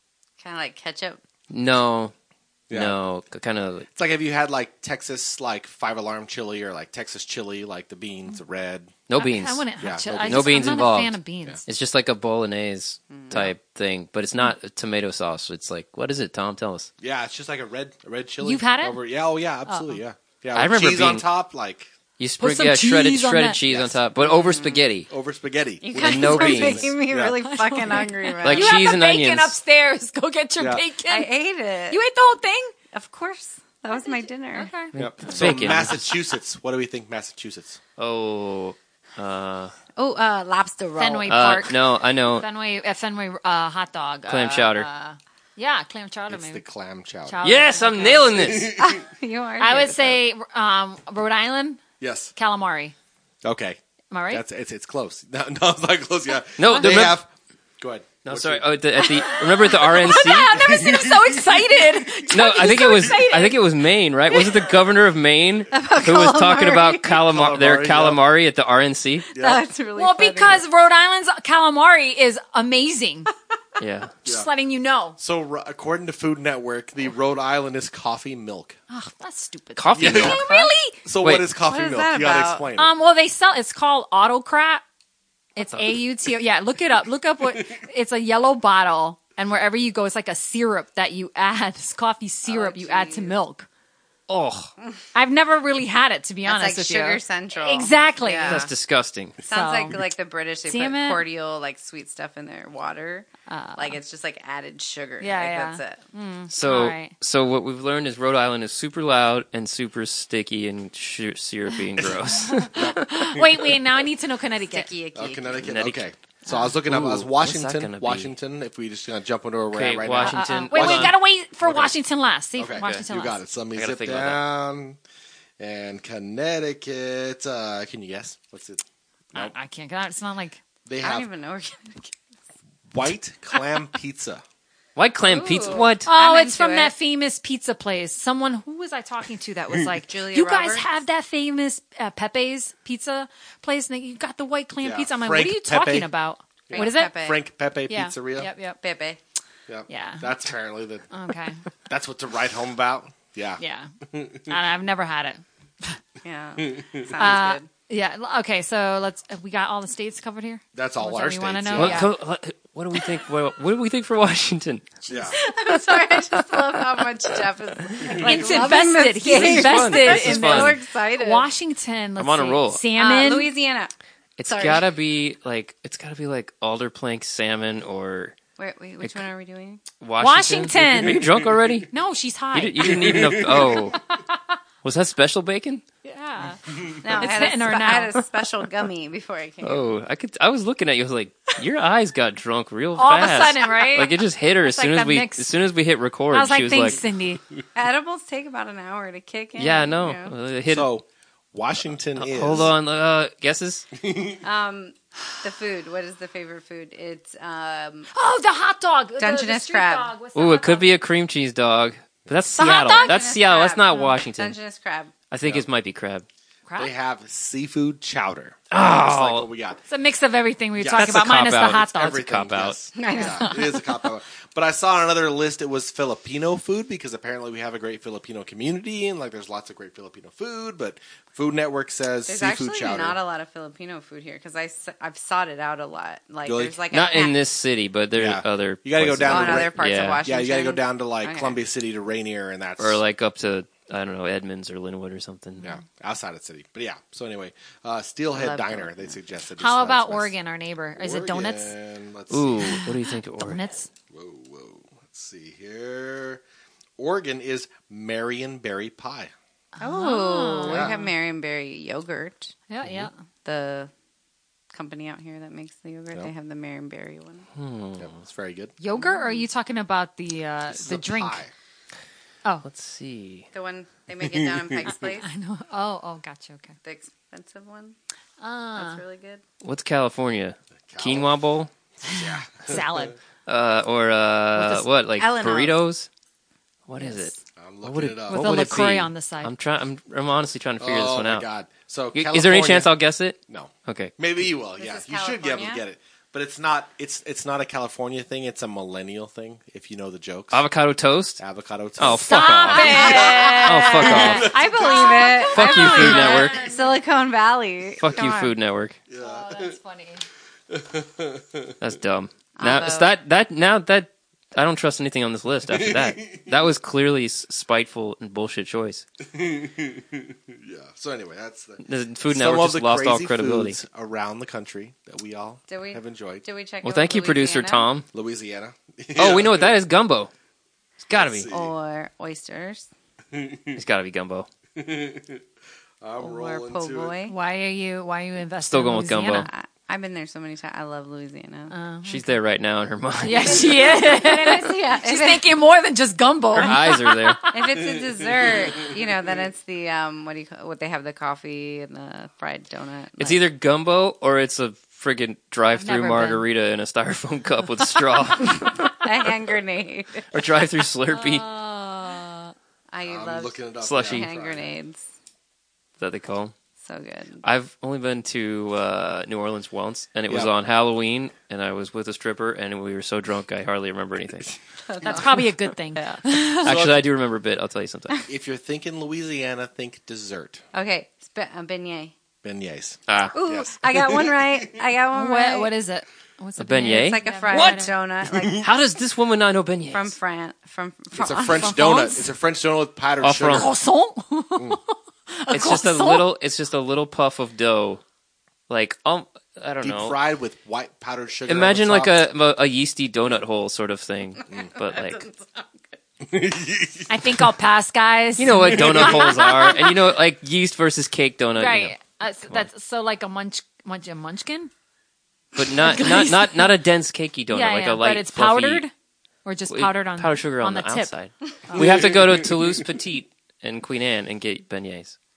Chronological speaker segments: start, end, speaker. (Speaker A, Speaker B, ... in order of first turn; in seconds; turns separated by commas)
Speaker A: 0.4-1.2, Speaker B: 1.5-2.1, Speaker C: 2.7-3.0, Speaker B: 2.7-3.9, Speaker C: 3.9-8.9, Speaker B: 9.1-9.6, Speaker D: 9.2-11.6, Speaker C: 9.8-10.7, Speaker B: 10.2-16.9, Speaker A: 13.1-13.4, Speaker C: 17.0-21.9, Speaker D: 18.4-19.0, Speaker D: 19.7-20.0, Speaker B: 20.5-21.2, Speaker B: 22.2-25.1, Speaker D: 22.4-23.6, Speaker C: 23.7-24.3, Speaker A: 24.2-24.8, Speaker C: 25.1-27.4, Speaker A: 25.8-28.9, Speaker B: 25.9-26.9, Speaker D: 27.4-31.3, Speaker B: 28.4-29.5, Speaker C: 30.6-30.8, Speaker A: 31.1-32.0, Speaker D: 31.9-32.7, Speaker A: 32.9-34.7, Speaker D: 33.9-35.8, Speaker B: 34.9-36.1, Speaker C: 34.9-37.8, Speaker B: 38.0-39.7, Speaker A: 39.9-41.5, Speaker D: 41.0-46.6, Speaker B: 41.3-42.4, Speaker B: 44.3-44.9, Speaker C: 46.3-47.5, Speaker D: 47.2-48.4, Speaker B: 47.4-48.8, Speaker C: 48.3-49.0, Speaker A: 48.6-50.2, Speaker D: 49.6-51.8, Speaker C: 52.0-52.3, Speaker D: 52.3-52.9, Speaker C: 53.4-53.8, Speaker D: 54.1-54.4, Speaker C: 54.3-58.7, Speaker B: 56.6-57.2, Speaker B: 58.2-60.7, Speaker D: 59.0-63.6, Speaker C: 60.6-61.4, Speaker B: 62.3-69.3, Speaker A: 65.7-67.2, Speaker C: 67.2-68.2, Speaker A: 69.3-70.6, Speaker C: 69.3-69.6, Speaker D: 70.0-73.3, Speaker B: 73.8-74.1, Speaker D: 74.2-75.2, Speaker C: 75.2-78.8, Speaker D: 78.9-81.0, Speaker B: 79.8-80.5, Speaker C: 79.9-82.9, Speaker A: 80.3-80.7, Speaker B: 81.2-81.5, Speaker A: 81.6-82.6, Speaker D: 82.7-84.8, Speaker D: 85.5-93.7, Speaker B: 85.6-85.9, Speaker A: 92.4-93.3, Speaker B: 94.3-94.7, Speaker D: 95.1-98.7, Speaker A: 96.4-98.7, Speaker B: 98.4-99.3, Speaker A: 99.4-106.0, Speaker D: 99.5-100.0, Speaker D: 100.7-101.2, Speaker D: 103.5-104.0, Speaker D: 105.2-107.1, Speaker B: 106.5-113.0, Speaker D: 112.4-114.9, Speaker C: 112.7-113.1, Speaker A: 114.7-115.7, Speaker C: 115.1-121.9, Speaker B: 115.6-116.0, Speaker D: 116.5-116.7, Speaker B: 116.8-118.3, Speaker B: 119.7-121.2, Speaker D: 120.2-123.4, Speaker C: 122.6-125.0, Speaker B: 123.7-124.4, Speaker C: 125.6-128.8, Speaker D: 129.3-130.6, Speaker C: 130.8-131.3, Speaker A: 131.0-132.2, Speaker C: 132.9-134.4, Speaker B: 134.9-136.1, Speaker A: 135.2-136.9, Speaker D: 136.1-147.1, Speaker A: 140.0-140.8, Speaker C: 144.8-146.1, Speaker C: 146.7-148.5, Speaker A: 146.7-147.4, Speaker D: 147.9-148.8, Speaker A: 148.8-149.2, Speaker C: 149.7-151.1, Speaker D: 149.9-150.3, Speaker D: 151.1-151.6, Speaker C: 151.8-153.6, Speaker D: 153.6-156.0, Speaker C: 154.1-154.4, Speaker A: 156.2-157.7, Speaker D: 157.2-162.1, Speaker C: 160.7-162.1, Speaker B: 161.7-165.0, Speaker C: 165.1-165.3, Speaker D: 165.1-165.7, Speaker A: 165.3-171.5, Speaker D: 168.1-173.5, Speaker B: 169.2-170.8, Speaker B: 172.2-172.8, Speaker A: 172.9-173.9, Speaker B: 174.4-178.3, Speaker A: 174.5-174.8, Speaker A: 178.6-179.8, Speaker B: 180.0-181.9, Speaker D: 180.2-181.3, Speaker D: 181.9-184.4, Speaker B: 182.5-184.0, Speaker C: 182.9-183.8, Speaker B: 184.8-185.8, Speaker D: 186.0-188.2, Speaker A: 187.0-189.9, Speaker B: 189.6-197.0, Speaker D: 192.9-195.5, Speaker D: 196.3-197.4, Speaker A: 197.7-200.3, Speaker B: 199.6-200.9, Speaker C: 200.7-202.7, Speaker B: 202.2-203.9, Speaker C: 204.1-204.4, Speaker A: 204.4-208.1, Speaker D: 208.1-210.9, Speaker A: 209.2-210.1, Speaker B: 210.3-214.6, Speaker A: 212.6-215.1, Speaker D: 212.6-213.2, Speaker B: 215.3-216.2, Speaker D: 216.7-216.9, Speaker C: 216.8-219.8, Speaker B: 218.7-219.5, Speaker D: 219.9-222.2, Speaker C: 220.8-233.2, Speaker B: 220.9-222.8, Speaker A: 222.9-223.9, Speaker D: 223.1-223.4, Speaker A: 232.2-237.4, Speaker C: 236.4-236.8, Speaker B: 236.9-240.2, Speaker C: 238.1-243.0, Speaker A: 239.2-241.6, Speaker B: 242.8-245.6, Speaker C: 245.6-250.3, Speaker A: 248.3-249.2, Speaker D: 249.6-251.7, Speaker C: 251.0-252.9, Speaker B: 252.3-253.6, Speaker D: 253.4-253.9, Speaker C: 254.1-256.4, Speaker C: 257.0-259.3, Speaker D: 259.8-261.1, Speaker A: 259.8-262.5, Speaker C: 260.6-261.0, Speaker D: 262.7-263.1, Speaker A: 263.4-263.9, Speaker A: 264.7-267.5, Speaker B: 267.6-268.1, Speaker C: 268.0-268.7, Speaker D: 268.8-271.4, Speaker A: 269.0-269.4, Speaker C: 270.7-271.5, Speaker B: 272.6-273.5, Speaker A: 273.5-275.3, Speaker D: 274.9-276.8, Speaker A: 276.8-277.9, Speaker D: 278.4-279.0, Speaker A: 278.8-279.4, Speaker B: 279.6-281.7, Speaker C: 280.9-281.3, Speaker C: 282.0-283.0, Speaker D: 282.0-283.1, Speaker B: 283.4-286.1, Speaker D: 284.6-284.9, Speaker A: 285.2-285.8, Speaker B: 286.9-291.4, Speaker C: 287.6-288.9, Speaker D: 288.3-289.5, Speaker C: 290.8-292.9, Speaker B: 292.1-294.1, Speaker C: 293.5-300.6, Speaker A: 294.8-295.8, Speaker B: 300.5-301.4, Speaker C: 301.4-303.5, Speaker B: 302.0-304.6, Speaker D: 302.1-307.0, Speaker A: 302.6-308.5, Speaker C: 304.1-305.1, Speaker B: 305.4-306.6, Speaker B: 308.0-309.0, Speaker C: 309.1-309.7, Speaker D: 309.2-310.2, Speaker C: 310.7-311.7, Speaker B: 311.8-319.1, Speaker A: 312.6-313.1, Speaker C: 315.7-316.5, Speaker C: 319.3-326.4, Speaker B: 321.8-323.8, Speaker A: 325.7-327.9, Speaker B: 326.8-328.1, Speaker C: 328.1-329.8, Speaker B: 329.1-330.3, Speaker B: 331.0-331.5, Speaker C: 331.1-331.7, Speaker A: 331.5-332.9, Speaker C: 333.4-333.7, Speaker B: 333.7-334.5, Speaker C: 334.8-335.4, Speaker C: 336.0-337.1, Speaker A: 336.2-337.3, Speaker D: 337.3-339.5, Speaker B: 338.6-339.5, Speaker A: 339.4-341.7, Speaker D: 341.7-342.3, Speaker B: 342.1-343.9, Speaker D: 343.2-347.6, Speaker A: 343.3-345.6, Speaker B: 346.6-347.4, Speaker A: 347.5-353.4, Speaker B: 353.2-358.9, Speaker D: 355.8-356.4, Speaker A: 358.6-360.3, Speaker B: 360.3-361.4, Speaker D: 361.1-362.5, Speaker A: 362.9-365.0, Speaker C: 363.0-364.7, Speaker B: 363.8-364.3, Speaker B: 366.0-366.5, Speaker A: 366.8-367.4, Speaker B: 367.4-374.6, Speaker A: 374.9-376.2, Speaker D: 375.0-376.8, Speaker B: 376.6-378.2, Speaker C: 376.6-377.1, Speaker C: 378.3-380.6, Speaker A: 380.7-382.1, Speaker C: 382.4-384.5, Speaker B: 383.1-383.4, Speaker A: 383.3-385.7, Speaker D: 385.1-387.9, Speaker B: 386.6-390.1, Speaker A: 386.8-388.7, Speaker A: 389.9-391.9, Speaker C: 391.1-393.7, Speaker D: 391.5-392.3, Speaker B: 393.2-393.7, Speaker D: 393.5-396.3, Speaker B: 395.5-398.0, Speaker B: 398.7-400.2, Speaker C: 399.8-402.2, Speaker B: 401.5-405.2, Speaker A: 404.5-405.7, Speaker C: 406.2-407.2, Speaker D: 407.1-409.9, Speaker B: 408.4-411.9, Speaker C: 408.6-409.3, Speaker D: 411.6-414.7, Speaker B: 415.6-418.8, Speaker D: 415.8-416.7, Speaker D: 417.5-418.9, Speaker D: 419.4-421.1, Speaker B: 419.7-425.1, Speaker D: 421.7-422.0, Speaker C: 421.8-422.6